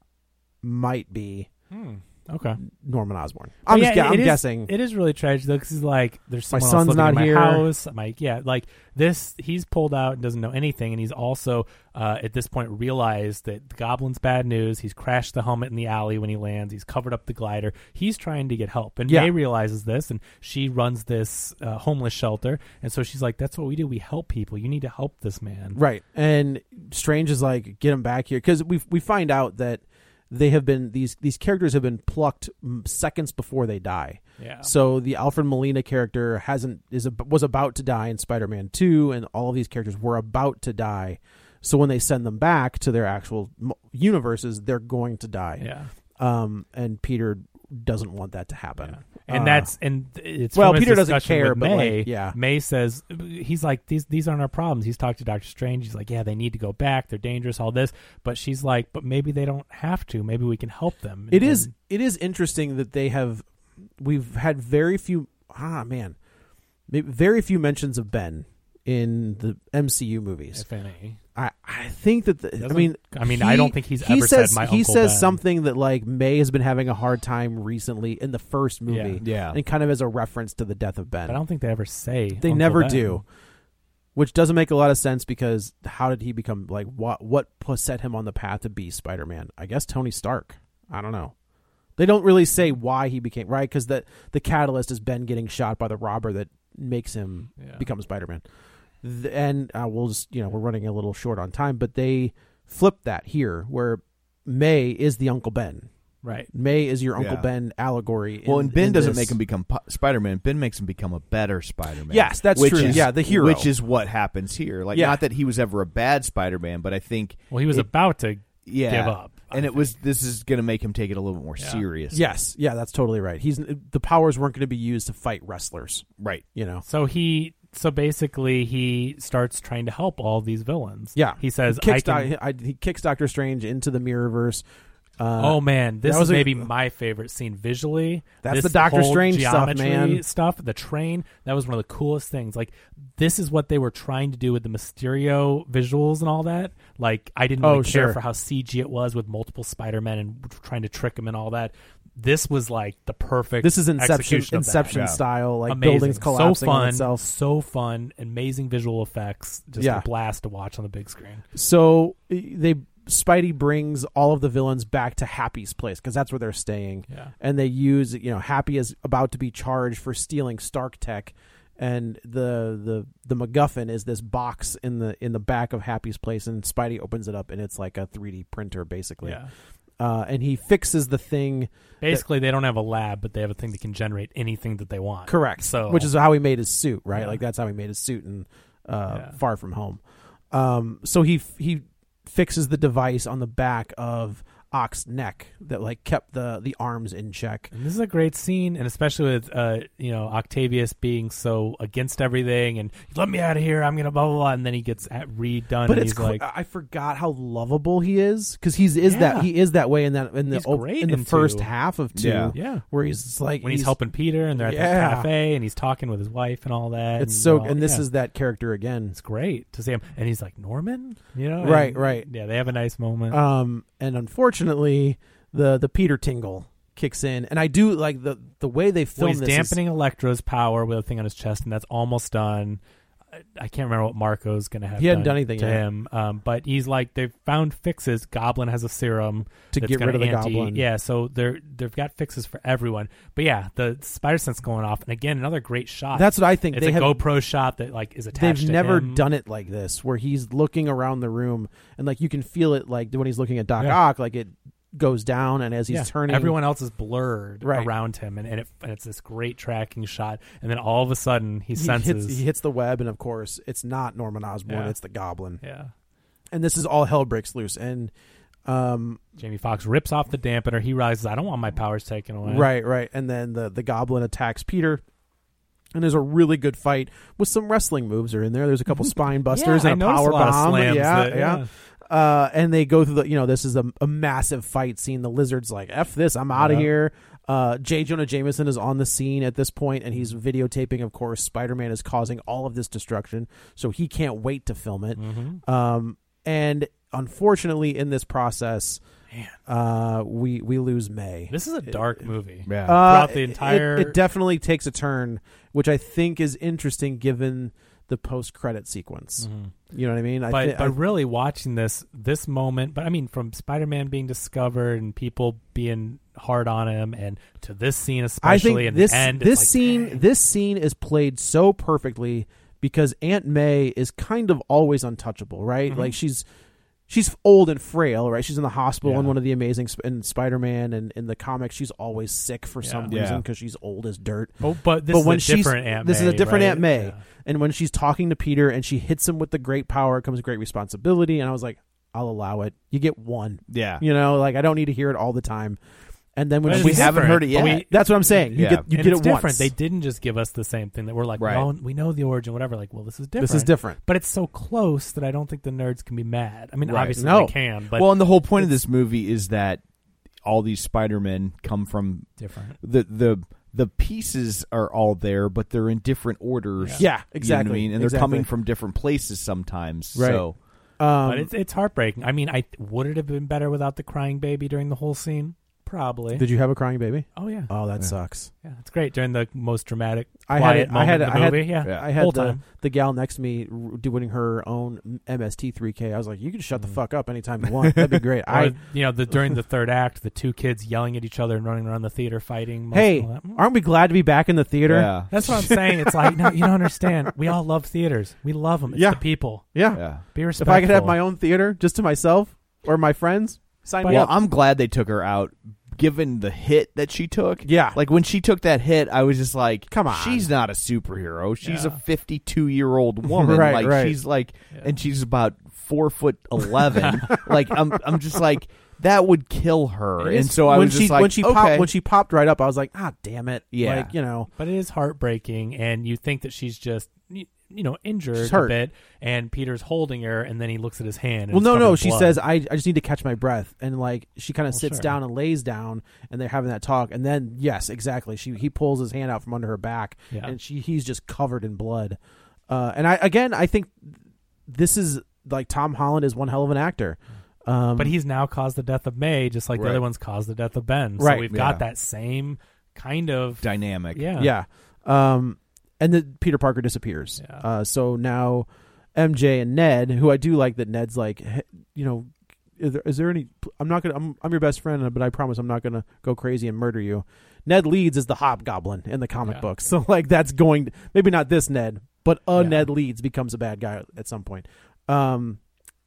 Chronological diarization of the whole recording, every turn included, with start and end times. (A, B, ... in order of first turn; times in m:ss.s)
0:00.6-0:01.5 A
0:01.7-0:02.6 B
0:02.7-0:04.7 A
0:03.7-0:25.8 B
0:06.5-0:07.7 A
0:19.1-0:19.3 A
0:25.7-0:49.7 A
0:34.4-0:34.7 B
0:45.6-0:45.9 B
0:48.8-1:01.7 B
0:50.5-0:52.4 A
1:01.3-1:03.4 A
1:04.0-1:06.1 A
1:06.9-1:10.6 A
1:10.5-1:11.2 B
1:11.3-1:21.4 A
1:12.6-1:15.4 B
1:18.9-1:19.2 B
1:19.2-1:19.6 C
1:21.3-1:23.2 B
1:22.4-1:23.2 A
1:24.2-1:31.3 A
1:32.0-1:38.4 A
1:37.6-1:37.8 B
1:39.0-1:45.9 A
1:46.2-1:46.5 B
1:46.5-1:49.4 A
1:47.2-1:47.5 C
1:48.4-1:57.9 C
1:52.1-1:53.7 A
1:52.7-1:53.0 B
1:54.9-1:55.2 A
1:57.5-1:59.9 B
1:58.6-2:02.2 C
2:01.6-2:01.8 B
2:02.1-2:06.8 A
2:06.8-2:12.3 B
2:11.1-2:14.6 A
2:15.2-2:16.7 A
2:15.4-2:34.9 B
2:18.4-2:20.2 A
2:27.6-2:28.2 A
2:33.6-2:37.2 A
2:34.9-2:35.2 C
2:35.7-2:41.4 B
2:39.8-2:40.1 A
2:41.5-2:59.4 A
2:59.2-2:59.5 B
3:00.0-3:02.2 A
3:02.0-3:06.1 B
3:05.3-3:10.0 A
3:07.1-3:07.4 B
3:09.1-3:09.4 B
3:10.5-3:17.7 A
3:17.7-3:26.4 B
3:25.8-3:34.0 A
3:29.0-3:29.5 B
3:30.5-3:31.7 B
3:32.1-3:32.5 C
3:32.5-3:32.8 B
3:33.6-3:38.0 B
3:34.6-3:35.3 A
3:37.2-3:39.2 A
3:39.1-3:43.4 B
3:41.6-3:42.3 A
3:43.3-3:49.8 A
3:49.2-3:52.8 B
3:53.4-4:09.2 B
3:55.0-3:55.8 A
3:59.7-4:00.8 A
4:06.1-4:07.2 A
4:08.3-4:16.6 A
4:15.9-4:22.4 B
4:17.6-4:17.9 A
4:21.8-4:25.6 A
4:24.7-4:24.9 B
4:25.6-4:25.9 B
4:26.5-4:28.1 A
4:28.6-4:29.2 A
4:29.4-4:32.7 B
4:32.4-4:35.0 A
4:35.9-4:59.0 A
4:39.5-4:41.7 B
4:46.5-4:46.9 B
4:55.2-4:55.6 B
4:59.7-5:02.0 A
5:01.5-5:04.2 B
5:02.7-5:03.0 C
5:02.8-5:11.0 A
5:09.4-5:09.7 B
5:10.5-5:20.2 B
5:18.4-5:26.4 A
5:25.9-5:26.1 B
5:27.1-5:45.8 A
5:29.0-5:29.3 B
5:32.8-5:33.1 B
5:33.1-5:33.4 C
5:34.6-5:37.2 B
5:43.7-5:44.0 C
5:46.4-5:49.7 A
5:46.6-5:58.1 B
5:46.7-5:47.9 C
5:48.6-5:48.8 C
5:51.4-5:51.7 C
5:53.4-5:54.0 A
5:56.9-5:57.2 C
5:57.2-5:57.5 A
5:57.9-5:59.8 C
6:00.4-6:10.6 C
6:02.4-6:02.8 B
6:06.8-6:07.0 B
6:07.0-6:08.5 A
6:10.1-6:10.5 A
6:11.0-6:11.5 A
6:11.2-6:16.4 B
6:16.3-6:18.5 A
6:17.4-6:17.7 B
6:18.6-6:22.6 B
6:20.5-6:28.8 A
6:27.9-6:28.1 C
6:28.5-6:33.6 B
6:32.9-6:36.7 A
6:34.8-6:35.3 C
6:35.3-6:39.6 B
6:38.9-6:40.0 A
6:39.9-6:40.2 C
6:40.3-6:41.2 B
6:40.6-6:44.4 A
6:44.0-6:44.3 B
6:44.0-7:01.9 C
6:47.6-6:48.0 A
6:49.9-6:50.5 A
6:51.6-6:52.0 B
6:53.3-6:54.2 A
6:57.0-6:57.3 B
7:00.2-7:04.5 A
7:03.7-7:04.1 C
7:04.6-7:12.4 B
7:08.4-7:08.7 A
7:11.5-7:22.2 A
7:14.7-7:15.2 B
7:22.7-7:24.2 A
7:24.7-7:28.1 A
7:28.0-7:34.5 B
7:29.7-7:30.0 C
7:31.2-7:31.5 A
7:31.5-7:31.8 C
7:33.6-7:34.2 C
7:34.4-7:55.6 A
7:52.5-7:52.9 B